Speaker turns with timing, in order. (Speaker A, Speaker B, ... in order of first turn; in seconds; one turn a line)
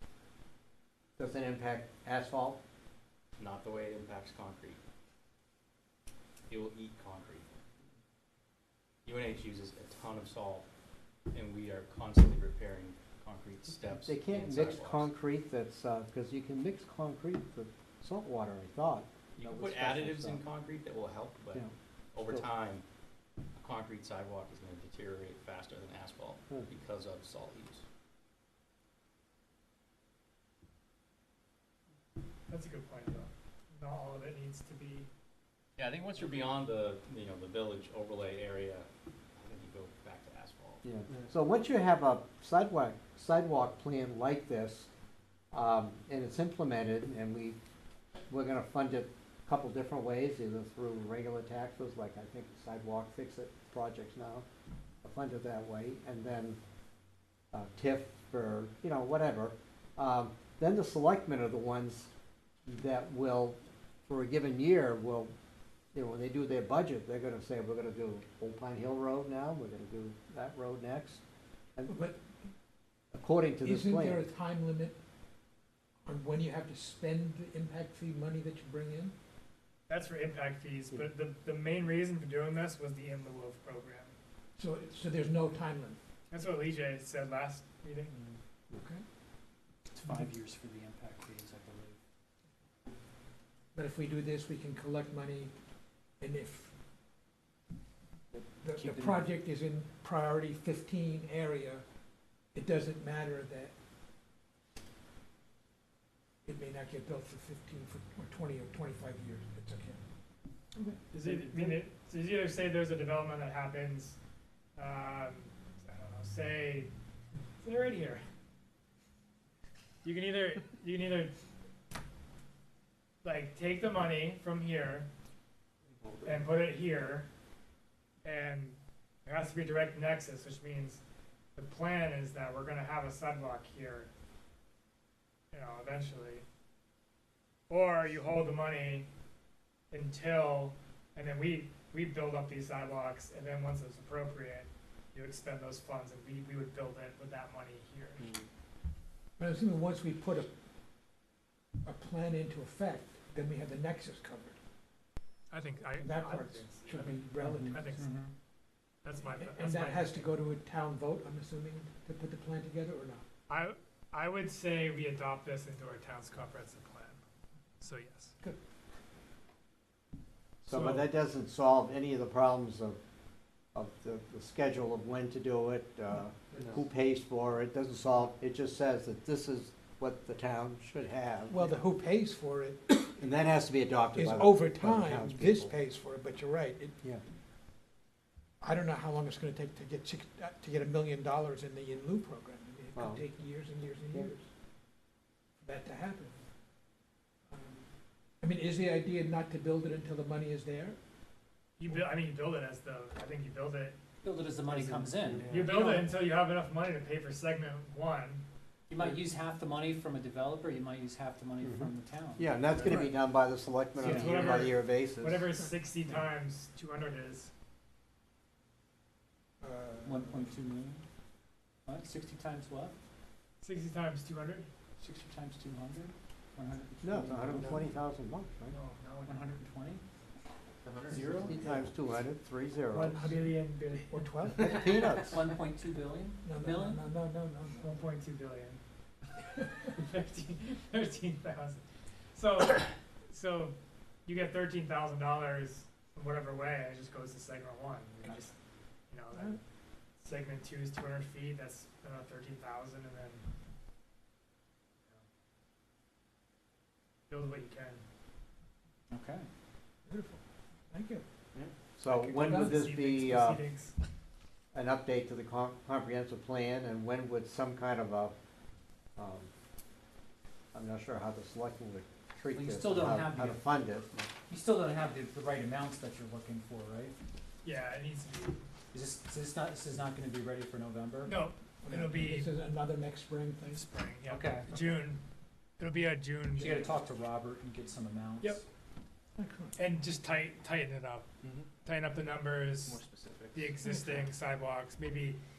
Speaker A: 1.2-2.6
Speaker B: 3.4-4.8
Speaker B: 6.5-7.5
Speaker B: 9.0-10.7
Speaker B: 11.3-15.1
Speaker A: 13.8-20.4
Speaker B: 19.4-22.8
Speaker B: 23.6-27.8
Speaker C: 32.5-35.1
Speaker B: 35.8-40.8
Speaker A: 40.8-44.9
Speaker A: 45.5-47.6
Speaker A: 48.3-54.4
Speaker A: 55.0-56.6
Speaker A: 57.5-62.1
Speaker A: 62.7-65.3
Speaker A: 65.9-71.2
Speaker D: 71.9-72.2
Speaker A: 73.1-74.2
Speaker D: 73.6-75.0
Speaker D: 76.0-79.1
Speaker C: 79.9-84.1
Speaker D: 84.6-86.0
Speaker C: 86.3-88.2
Speaker D: 88.7-89.0
Speaker E: 89.9-92.0
Speaker D: 93.7-95.5
Speaker D: 96.2-96.7
Speaker D: 98.3-101.8
Speaker E: 98.7-99.2
Speaker D: 102.5-103.7
Speaker D: 106.5-110.0
Speaker C: 111.1-114.2
Speaker C: 114.8-116.9
Speaker C: 117.6-118.2
Speaker C: 120.0-121.3
Speaker C: 123.2-125.1
Speaker C: 126.2-127.3
Speaker C: 128.2-131.0
Speaker C: 131.6-134.1
Speaker C: 135.5-136.4
Speaker C: 137.7-139.1
Speaker C: 139.9-148.2
Speaker D: 149.4-150.5
Speaker D: 151.8-154.6
Speaker C: 155.5-158.0
Speaker D: 156.0-158.1
Speaker E: 157.4-158.3
Speaker C: 159.0-160.3
Speaker D: 159.2-163.2
Speaker C: 163.5-167.2
Speaker C: 167.8-168.3
Speaker A: 170.7-173.0
Speaker A: 173.7-181.7
Speaker D: 181.5-183.1
Speaker A: 183.2-185.7
Speaker D: 184.1-187.0
Speaker D: 188.6-194.5
Speaker A: 192.9-193.2
Speaker D: 195.6-196.4
Speaker D: 197.5-197.8
Speaker D: 198.4-201.0
Speaker C: 201.8-204.0
Speaker E: 204.2-206.1
Speaker A: 204.7-205.4
Speaker C: 205.5-208.4
Speaker E: 208.9-213.1
Speaker A: 211.6-215.4
Speaker E: 214.0-214.6
Speaker C: 214.0-217.5
Speaker D: 219.6-220.6
Speaker E: 220.0-221.0
Speaker E: 221.8-222.9
Speaker C: 223.6-224.7
Speaker E: 225.0-227.8
Speaker A: 227.0-228.8
Speaker C: 228.7-229.5
Speaker E: 229.2-230.0
Speaker B: 230.8-231.2
Speaker E: 231.1-231.6
Speaker A: 231.4-233.3
Speaker D: 231.4-231.8
Speaker D: 232.9-234.8
Speaker C: 233.1-234.8
Speaker A: 234.6-235.4
Speaker E: 235.1-237.0
Speaker D: 236.4-237.9
Speaker C: 237.8-238.8
Speaker C: 239.8-241.8
Speaker C: 242.3-248.5
Speaker C: 249.1-249.6
Speaker C: 250.2-253.5
Speaker C: 257.3-258.0
Speaker E: 259.1-259.4
Speaker D: 260.1-261.2
Speaker A: 262.0-263.6
Speaker C: 262.0-264.1
Speaker D: 262.4-262.9
Speaker A: 264.7-268.3
Speaker A: 269.2-269.5
Speaker A: 270.7-274.1
Speaker E: 272.5-273.6
Speaker E: 274.5-277.1
Speaker C: 277.6-278.6
Speaker E: 278.9-281.4
Speaker C: 281.2-282.5
Speaker D: 281.8-283.8
Speaker C: 283.7-285.2
Speaker E: 284.3-284.7
Speaker C: 285.8-287.0
Speaker E: 286.5-288.6
Speaker D: 289.4-289.8
Speaker C: 289.8-291.3
Speaker C: 291.8-293.0
Speaker B: 292.9-293.7
Speaker C: 293.5-295.4